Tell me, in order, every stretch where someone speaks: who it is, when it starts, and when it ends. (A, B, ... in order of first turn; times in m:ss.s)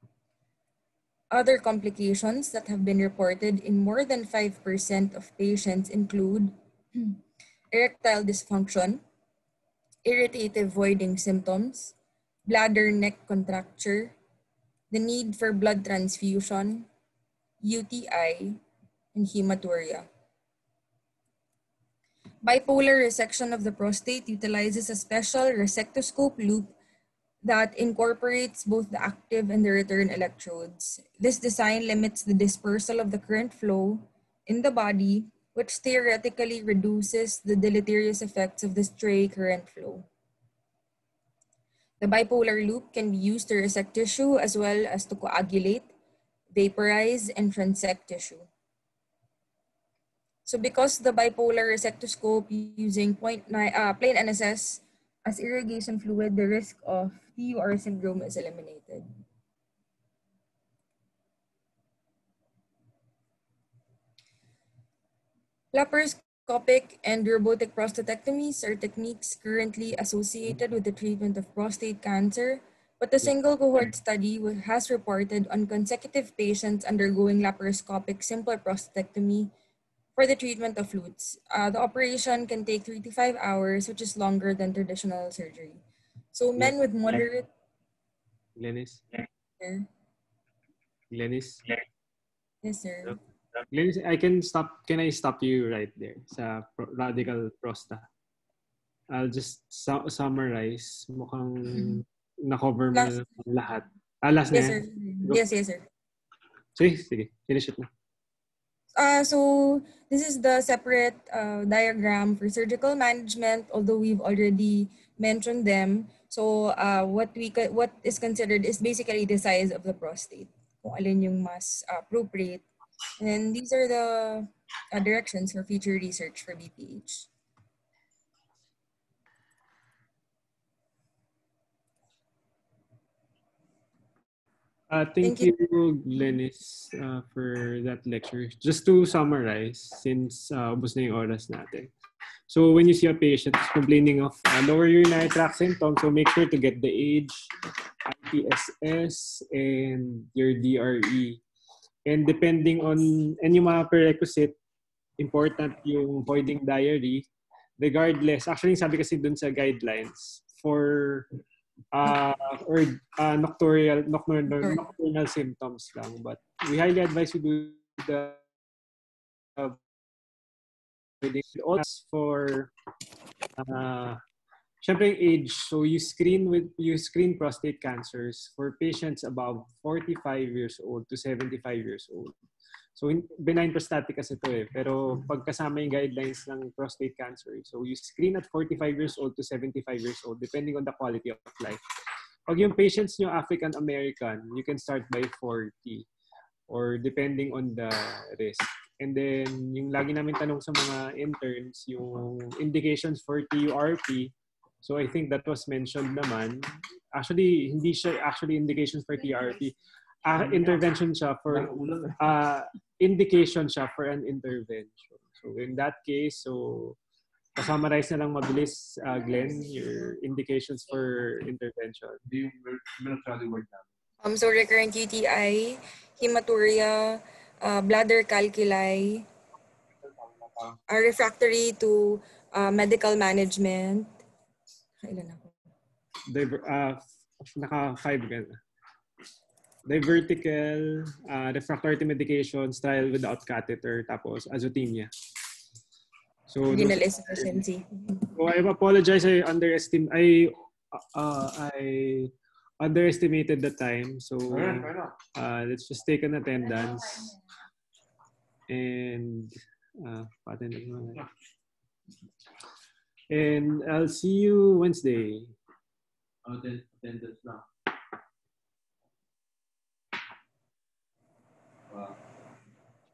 0:01.3-0:07.2 A
0:07.7-0:09.0 A
0:10.0-0:12.0 A
0:12.5-0:14.2 A
0:14.9-0:16.9 A
0:17.6-0:18.6 A
0:19.2-0:20.1 A
0:22.4-0:26.8 A
0:27.4-0:40.1 A
0:42.0-0:45.9 A
0:46.5-0:48.5 A
0:50.5-0:59.1 A
1:05.7-1:19.5 A
1:20.2-1:25.8 A
1:26.3-1:27.5 A
1:28.6-1:29.0 B
1:29.6-1:29.9 A
1:31.1-1:31.6 B
1:32.6-1:33.2 A
1:33.7-1:38.1 B
1:39.1-1:45.4 B
1:44.5-1:45.9 A
1:46.8-1:47.9 B
1:49.0-2:02.6 A
2:03.2-2:07.3 A
2:14.9-2:21.9 B
2:15.2-2:15.5 A
2:22.5-2:27.5 B
2:28.1-2:31.4 B
2:32.1-2:34.6 B
2:35.2-2:37.3 B
2:37.8-2:41.3 B
2:41.9-2:48.4 B
2:51.2-2:52.7 B
2:53.6-2:54.2 B
2:54.8-3:02.4 B
3:03.0-3:11.8 B
3:12.5-3:16.1 B
3:16.7-3:37.0 B
3:31.5-3:32.2 C
3:37.6-3:42.2 B
3:42.3-3:43.8 C
3:44.2-3:49.3 A
3:50.4-3:50.8 C
3:50.9-3:54.2 A
3:55.0-3:55.5 A
3:56.3-3:57.0 B
3:57.6-3:58.6 B
3:59.9-4:05.1 B
4:06.5-4:07.6 B
4:06.7-4:08.3 A
4:08.3-4:10.5 B
4:11.1-4:17.3 B
4:14.5-4:15.2 C
4:18.7-4:21.2 B
4:23.3-4:25.5 B
4:26.5-4:27.6 C
4:31.9-4:32.2 C